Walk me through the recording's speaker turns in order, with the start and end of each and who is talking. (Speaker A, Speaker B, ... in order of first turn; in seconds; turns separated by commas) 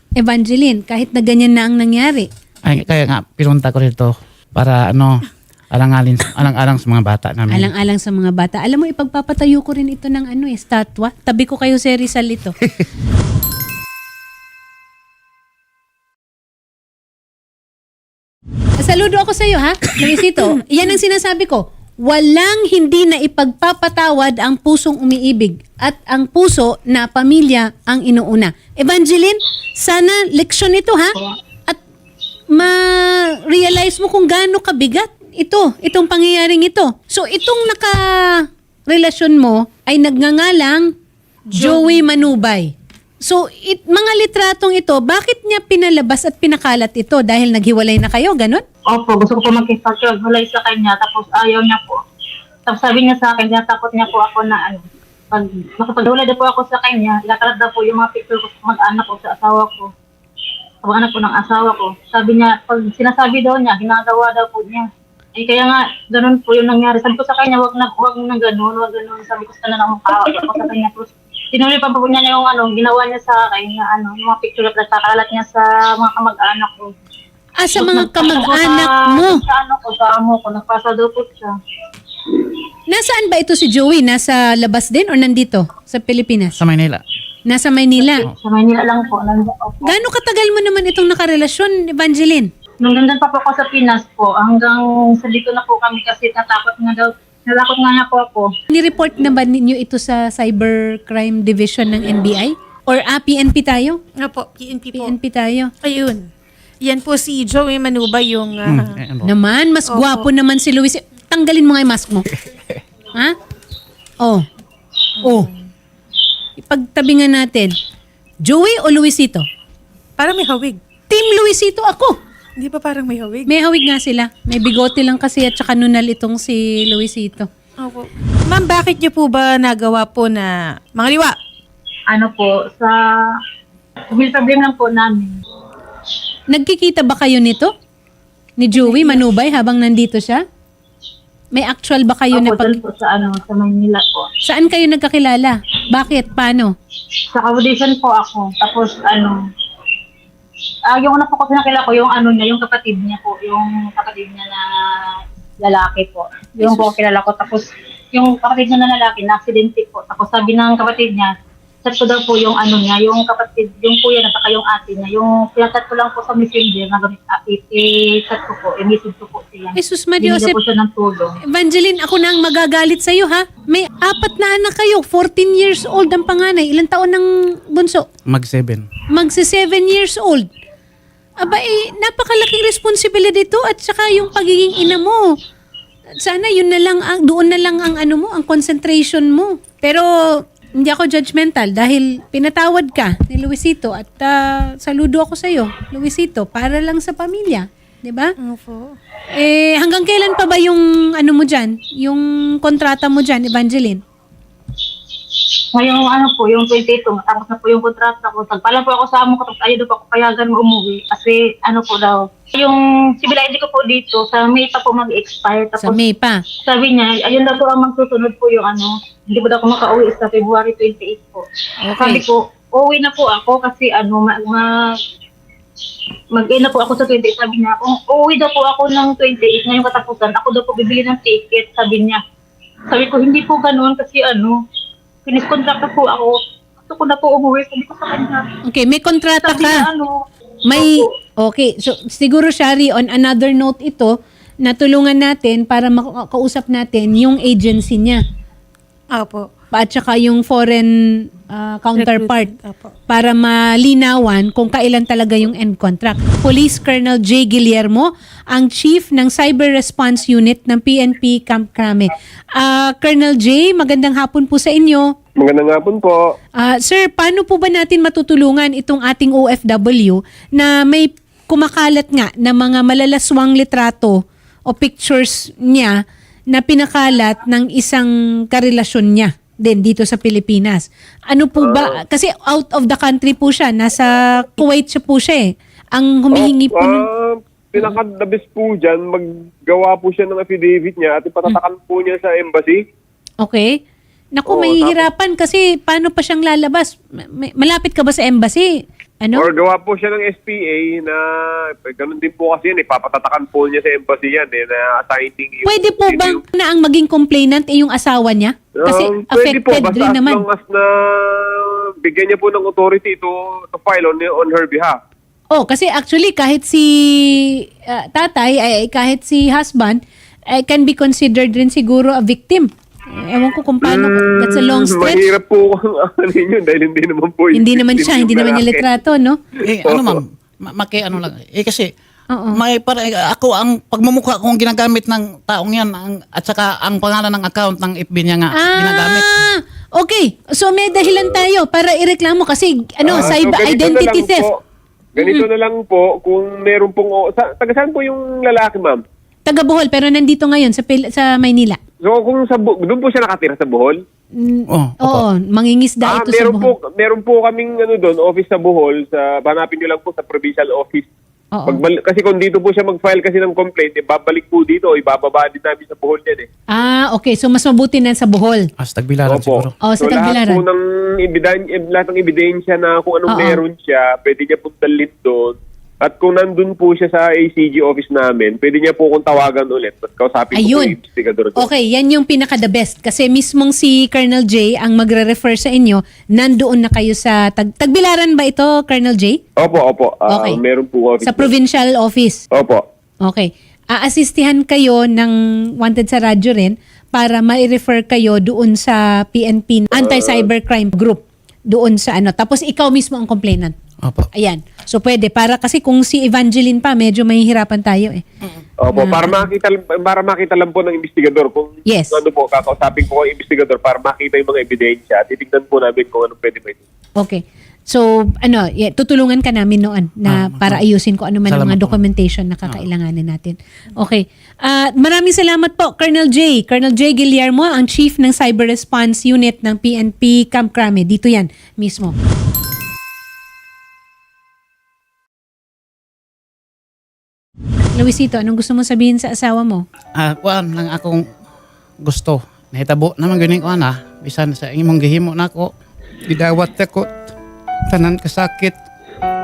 Speaker A: 0.2-2.3, Speaker B: 2.7-7.7, Speaker A: 7.5-12.6, Speaker A: 18.8-31.8, Speaker A: 32.5-40.9, Speaker C: 41.5-41.9, Speaker A: 41.5-42.7, Speaker A: 43.2-48.6, Speaker D: 48.9-52.0, Speaker D: 52.7-59.9, Speaker D: 60.8-76.9, Speaker A: 77.6-79.4, Speaker D: 77.8-81.5, Speaker D: 82.3-82.5, Speaker A: 82.9-86.6, Speaker B: 86.6-87.0, Speaker A: 87.5-88.2, Speaker D: 88.0-89.9, Speaker A: 89.8-92.5, Speaker D: 92.8-98.5, Speaker A: 98.7-104.0, Speaker C: 104.2-105.1, Speaker A: 104.9-105.7, Speaker C: 105.8-106.3, Speaker C: 106.8-109.0, Speaker B: 108.7-109.3, Speaker A: 109.2-112.3, Speaker C: 109.9-110.3, Speaker C: 115.2-115.7, Speaker A: 115.2-115.5, Speaker A: 116.6-117.7, Speaker A: 118.4-119.5, Speaker C: 120.2-120.8, Speaker A: 121.1-122.2, Speaker C: 122.6-123.5, Speaker A: 123.5-127.5, Speaker C: 127.8-131.3, Speaker D: 132.1-132.9, Speaker D: 134.1-135.3, Speaker A: 136.5-137.7, Speaker A: 138.6-140.4, Speaker D: 138.8-139.2, Speaker A: 141.5-142.8, Speaker D: 142.3-144.3, Speaker A: 144.4-146.7, Speaker D: 147.3-149.4, Speaker D: 150.9-154.6, Speaker D: 155.6-161.3, Speaker A: 156.6-156.9, Speaker D: 161.8-171.3, Speaker A: 169.8-170.6, Speaker A: 171.5-178.1, Speaker B: 178.3-178.9, Speaker A: 179.1-180.5, Speaker A: 181.4-185.3, Speaker A: 186.2-198.3, Speaker C: 198.4-199.0, Speaker A: 199.3-204.0, Speaker D: 205.7-216.0, Speaker A: 215.8-216.4, Speaker D: 216.7-221.4, Speaker A: 221.8-222.2, Speaker D: 222.0-224.7, Speaker D: 226.3-232.2, Speaker D: 232.9-234.5, Speaker D: 235.3-236.4, Speaker D: 236.9-238.5, Speaker A: 238.7-239.9, Speaker D: 239.4-241.1, Speaker A: 240.7-248.2, Speaker C: 249.1-249.5, Speaker A: 249.7-252.5, Speaker C: 251.9-252.9, Speaker A: 253.1-265.1, Speaker E: 265.4-266.2, Speaker A: 266.6-276.0, Speaker A: 276.5-287.1, Speaker E: 281.6-282.0, Speaker E: 286.3-292.8, Speaker A: 293.4-293.8, Speaker A: 294.4-298.7, Speaker E: 294.5-295.1, Speaker A: 299.2-299.5, Speaker E: 299.3-301.2, Speaker E: 301.9-306.4, Speaker A: 305.7-310.4, Speaker E: 308.8-315.0, Speaker A: 315.5-325.3, Speaker E: 323.8-328.9, Speaker A: 327.6-329.4, Speaker B: 329.7-331.9, Speaker E: 329.9-330.2, Speaker A: 332.3-332.6, Speaker B: 332.5-339.4, Speaker A: 338.6-344.4, Speaker E: 343.0-344.6, Speaker E: 345.2-349.0, Speaker A: 345.2-345.4, Speaker A: 349.5-351.8, Speaker E: 352.0-354.0, Speaker A: 354.4-356.7, Speaker B: 354.7-355.3, Speaker E: 356.0-361.1, Speaker A: 361.5-361.8, Speaker E: 361.7-366.5, Speaker A: 366.7-368.7, Speaker B: 368.8-369.7, Speaker E: 369.3-381.7, Speaker A: 369.8-370.6, Speaker A: 373.3-373.6, Speaker A: 380.5-380.9, Speaker A: 381.6-389.4, Speaker E: 389.6-391.5, Speaker A: 390.3-390.6, Speaker A: 391.2-392.4, Speaker E: 392.5-392.8, Speaker A: 393.2-403.8, Speaker E: 399.9-400.5, Speaker B: 404.0-404.3, Speaker A: 404.4-408.2, Speaker E: 408.8-416.8, Speaker A: 408.9-409.4, Speaker A: 411.9-412.2, Speaker A: 417.2-432.1, Speaker B: 420.3-420.8, Speaker B: 421.5-422.0, Speaker A: 437.9-439.8, Speaker B: 440.2-441.2, Speaker B: 442.0-445.7, Speaker B: 446.3-447.1, Speaker B: 447.9-448.8